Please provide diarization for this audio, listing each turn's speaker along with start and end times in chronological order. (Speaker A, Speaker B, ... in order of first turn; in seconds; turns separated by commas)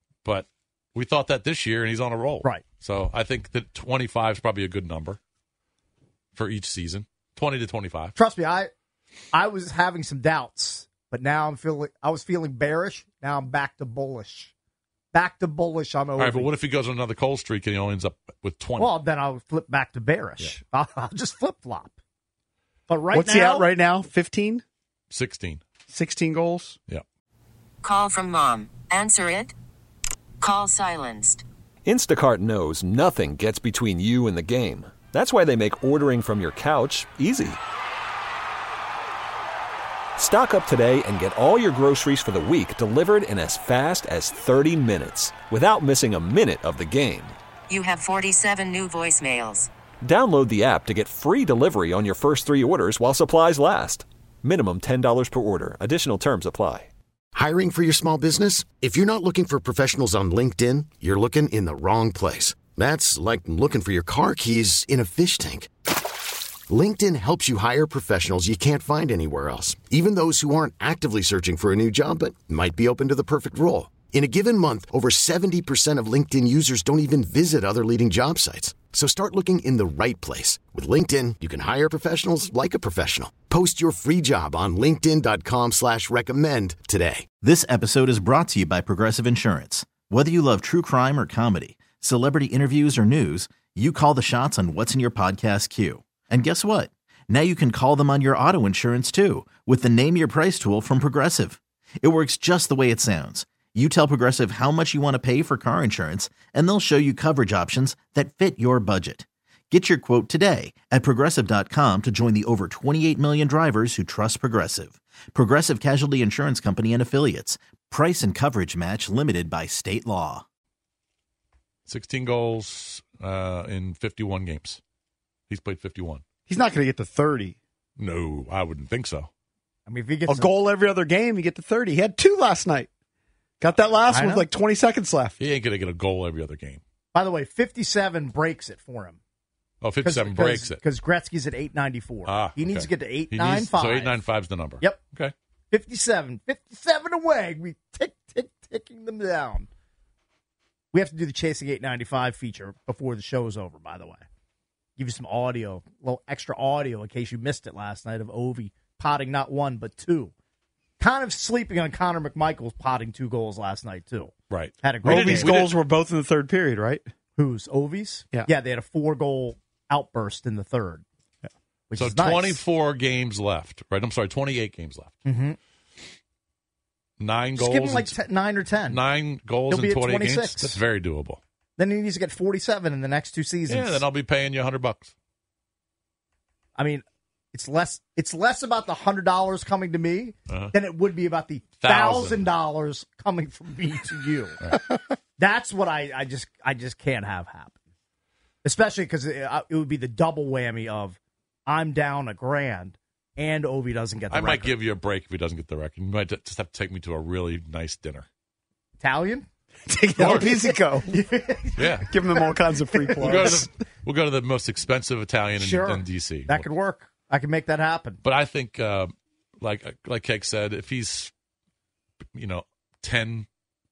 Speaker A: 0.2-5.2, Speaker A: 6.3-8.1, Speaker B: 8.1-8.7, Speaker B: 9.3-14.5, Speaker B: 15.1-16.5, Speaker A: 16.2-18.9, Speaker B: 18.8-21.9, Speaker B: 22.9-23.7, Speaker C: 23.1-24.6, Speaker A: 25.1-25.6, Speaker C: 25.9-26.8, Speaker D: 27.8-29.5, Speaker D: 30.4-31.4, Speaker E: 31.9-37.6, Speaker E: 40.2-47.4, Speaker D: 47.7-49.7, Speaker E: 50.0-56.9, Speaker F: 57.3-65.7, Speaker F: 66.7-87.2, Speaker G: 87.4-120.4, Speaker A: 121.9-124.8, Speaker A: 125.5-126.2, Speaker C: 126.5-127.5, Speaker A: 128.0-129.3, Speaker B: 129.8-130.5, Speaker C: 130.3-132.9, Speaker C: 133.6-135.4, Speaker B: 134.1-134.4, Speaker A: 135.4-136.8, Speaker B: 137.1-139.2, Speaker A: 139.8-140.8, Speaker B: 140.0-144.2, Speaker A: 142.3-145.3, Speaker B: 145.7-149.7, Speaker B: 150.9-154.2, Speaker B: 155.0-160.3, Speaker B: 161.0-165.5, Speaker A: 164.5-165.7, Speaker C: 165.0-167.1, Speaker B: 167.3-171.0, Speaker B: 171.9-172.6, Speaker A: 172.0-175.1, Speaker B: 175.2-175.6, Speaker A: 177.2-178.2, Speaker B: 177.6-179.0, Speaker A: 178.9-181.4, Speaker B: 179.7-180.8, Speaker B: 181.8-184.1, Speaker A: 183.7-185.1, Speaker B: 186.8-194.7, Speaker A: 190.5-190.7, Speaker A: 191.8-192.4, Speaker B: 195.4-197.8, Speaker B: 198.6-204.8, Speaker A: 204.3-208.2, Speaker B: 209.0-209.4, Speaker C: 209.9-211.2, Speaker A: 210.2-210.5, Speaker B: 210.2-213.6, Speaker A: 211.8-212.1, Speaker C: 212.0-213.7, Speaker A: 213.2-216.7, Speaker B: 215.6-218.2, Speaker A: 218.2-221.3, Speaker A: 222.3-223.5